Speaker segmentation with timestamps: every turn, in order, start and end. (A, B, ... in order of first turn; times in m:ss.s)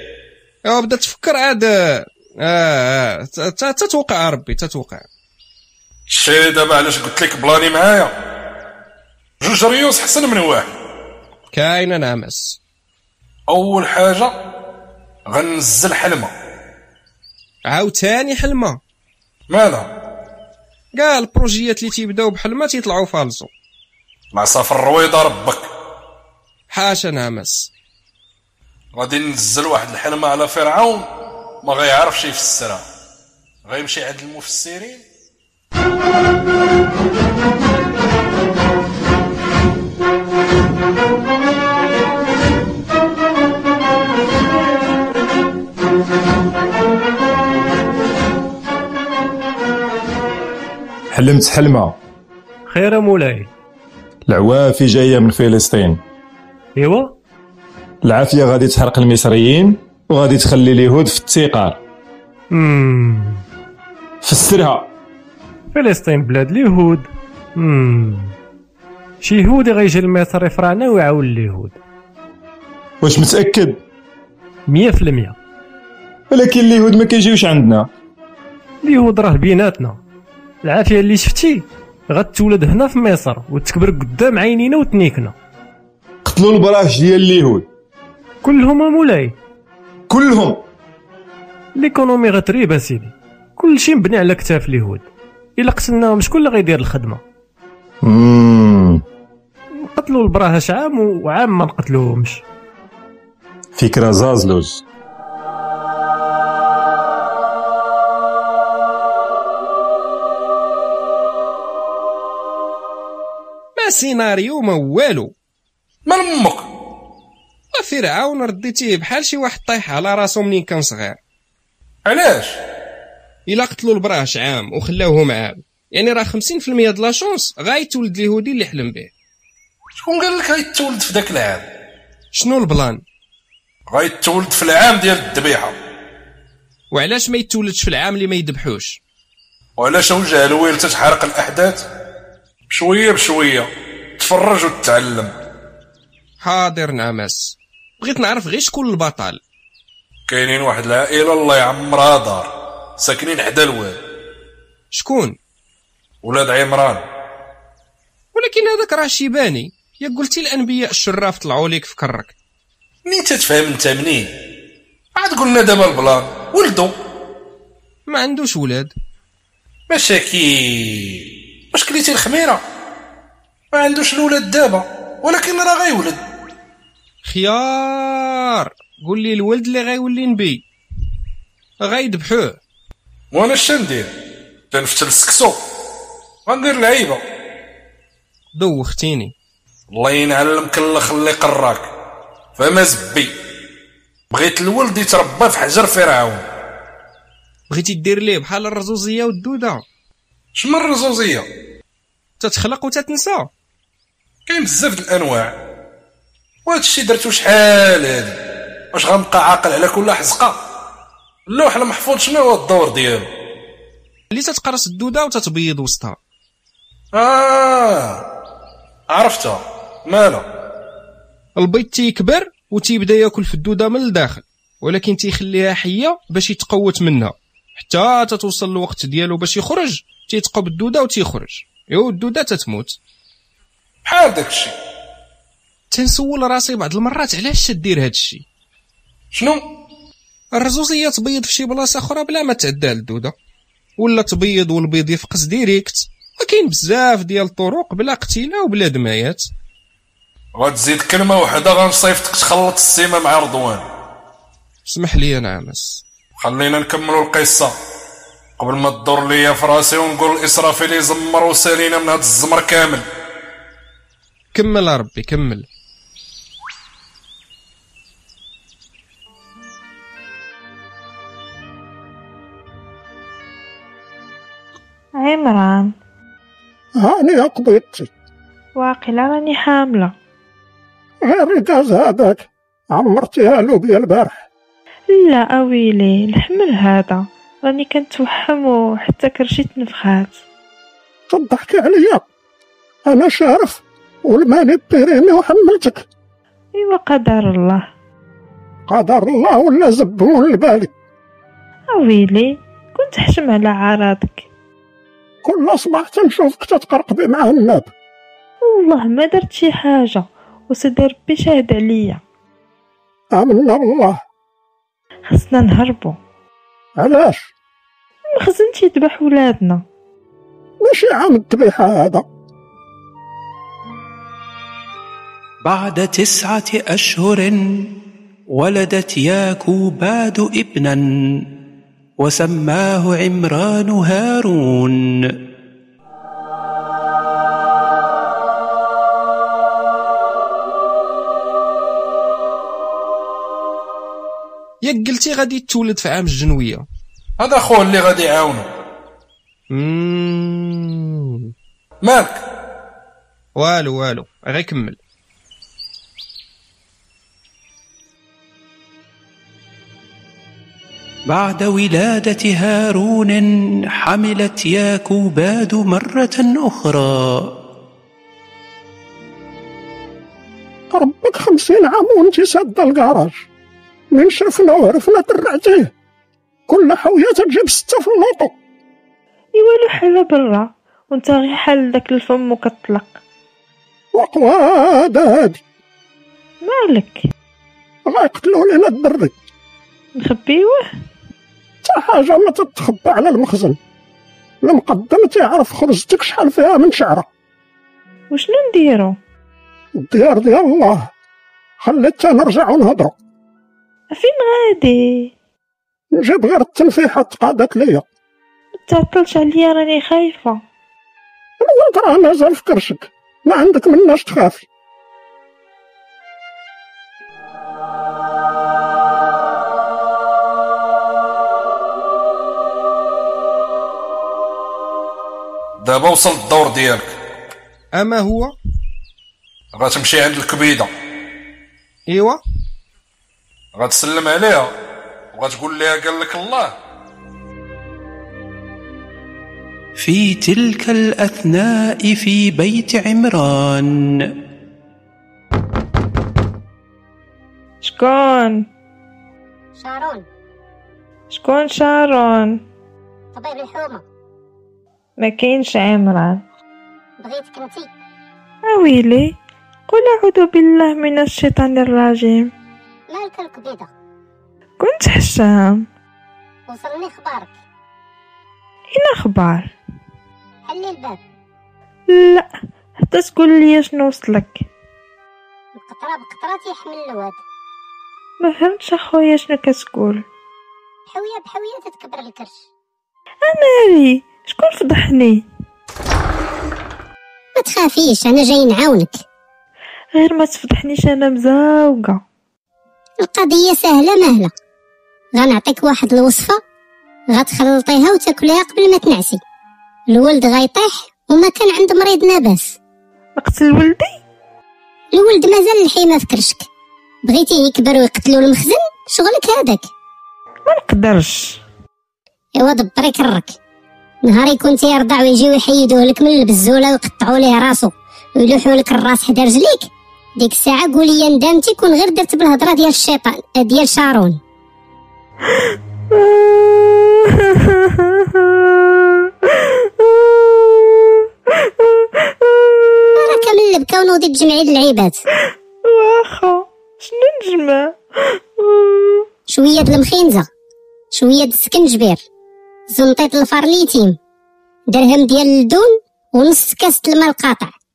0:00.6-0:05.0 A
0:06.1-0:08.1 B
0:09.4-0:10.7 B
0:11.5-0:12.6 A
0:13.5-0:14.4 B
0:15.3-0:16.3 B
0:17.6-0:18.8 A
0:19.5-0:19.9 B
0:21.0-0:23.5 A
0:24.3-0:25.7 B
0:26.7-0:27.7 A
0:29.0-0:31.1 B
0:31.6-0:32.8 B
0:33.6-0:35.0 B
0:51.1-0:52.0 C
0:52.7-0:53.5 D
0:54.2-0:56.0 C
0:56.8-0:57.1 D
0:58.0-1:01.8 C
1:02.5-1:03.4 D
1:04.2-1:04.9 C
1:05.7-1:08.3 D
1:09.2-1:11.8 D
1:13.0-1:13.8 C
1:14.7-1:15.4 D
1:16.3-1:17.9 C
1:18.8-1:20.0 D
1:20.6-1:25.3 D
1:26.2-1:27.7 C
1:28.4-1:29.3 D
1:30.1-1:30.6 C
1:31.8-1:35.0 D
1:35.6-1:37.2 D
1:38.0-1:39.0 C
1:39.8-1:42.4 D
1:43.7-1:44.8 C
1:53.8-1:55.3 A
1:56.0-1:56.6 B
1:57.7-2:01.2 A
2:02.0-2:02.6 B
2:03.5-2:09.1 A
2:10.0-2:11.6 B
2:12.3-2:13.0 A
2:13.9-2:15.7 B
2:16.9-2:19.0 A
2:19.8-2:21.8 B
2:22.7-2:25.3 B
2:26.4-2:29.4 A
2:30.3-2:34.0 B
2:34.9-2:35.4 A
2:36.2-2:37.0 B
2:38.3-2:42.3 A
2:43.0-2:44.3 B
2:45.1-2:46.9 B
2:48.1-2:48.9 A
2:49.9-2:52.6 B
2:53.7-2:56.2 B
2:57.2-3:00.6 A
3:01.8-3:02.6 A
3:03.3-3:04.1 B
3:04.7-3:05.6 B
3:06.5-3:07.2 B
3:08.5-3:09.3 A
3:09.9-3:11.9 B
3:12.6-3:13.3 B
3:14.3-3:16.4 B
3:17.7-3:19.8 A
3:20.6-3:21.4 B
3:22.4-3:23.5 A
3:24.5-3:25.5 B
3:26.6-3:28.4 B
3:28.9-3:30.6 B
3:31.5-3:33.3 B
3:34.3-3:36.2 A
3:37.1-3:38.2 B
3:39.1-3:40.4 B
3:41.6-3:53.0 A
3:54.0-3:54.7 B
3:55.9-3:58.4 A
3:59.3-3:59.6 B
4:00.5-4:03.3 A
4:04.0-4:09.5 A
4:10.5-4:13.8 B
4:14.8-4:16.0 A
4:16.4-4:17.7 B
4:18.6-4:23.0 B
4:24.5-4:25.6 A
4:35.2-4:35.9 E
4:37.0-4:38.1 F
4:38.8-4:40.1 E
4:41.2-4:44.4 F
4:45.1-4:50.4 E
4:51.3-4:52.2 F
4:53.0-4:56.0 F
4:56.8-4:57.8 E
4:58.9-5:00.9 F
5:01.9-5:04.4 E
5:05.4-5:07.9 F
5:08.6-5:12.2 E
5:13.3-5:14.2 F
5:15.3-5:16.2 E
5:17.0-5:17.5 F
5:18.3-5:19.8 E
5:20.8-5:22.2 F
5:25.6-5:27.9 G
5:28.5-5:31.5 G
5:32.2-5:35.0 G
5:44.8-5:46.8 A
5:47.4-5:48.6 B
5:49.7-5:51.5 A
5:52.0-5:52.4 B
5:53.6-5:55.0 A
6:01.3-6:03.5 G
6:04.0-6:07.5 G
6:10.9-6:13.4 F
6:14.1-6:15.9 F
6:16.7-6:18.5 F
6:19.6-6:23.2 E
6:24.1-6:25.6 F
6:26.6-6:27.2 E
6:28.0-6:29.3 F
6:30.2-6:30.8 E
6:31.8-6:33.8 F
6:34.6-6:37.3 F
6:38.3-6:39.2 E
6:40.0-6:41.1 F
6:41.8-6:43.1 F
6:44.1-6:45.3 E
6:46.1-6:48.0 F
6:48.8-6:50.6 E
6:51.6-6:54.6 F
7:05.8-7:07.1 B
7:07.9-7:08.6 A
7:09.7-7:10.9 B
7:12.1-7:12.4 A
7:13.7-7:14.7 B
7:15.3-7:16.7 B
7:20.0-7:24.3 G
7:27.8-7:28.6 E
7:29.8-7:30.2 H
7:31.3-7:32.6 E
7:33.3-7:34.0 H
7:35.2-7:36.4 E
7:37.2-7:37.9 H
7:38.7-7:39.3 E
7:39.9-7:42.5 E
7:43.1-7:43.9 H
7:44.8-7:45.8 E
7:46.7-7:47.5 H
7:48.9-7:49.7 E
7:50.7-7:51.2 H
7:52.1-7:52.5 E
7:53.0-7:54.6 E
7:55.8-7:57.4 H
7:58.4-8:00.2 E
8:01.1-8:02.5 H
8:03.4-8:05.4 E
8:07.6-8:09.2 H
8:10.2-8:12.2 E
8:13.2-8:14.5 H
8:15.4-8:16.6 H
8:17.3-8:19.4 H
8:20.1-8:22.8 H
8:23.4-8:24.1 E
8:25.1-8:26.7 H
8:27.2-8:29.9 H
8:30.7-8:31.6 E
8:32.6-8:33.6 H
8:34.2-8:44.4 H
8:45.4-8:53.3 E
8:53.2-8:55.2 H
8:55.8-8:59.3 E
8:59.5-9:00.5 H
9:01.1-9:02.2 H
9:02.9-9:04.2 H
9:04.9-9:07.7 H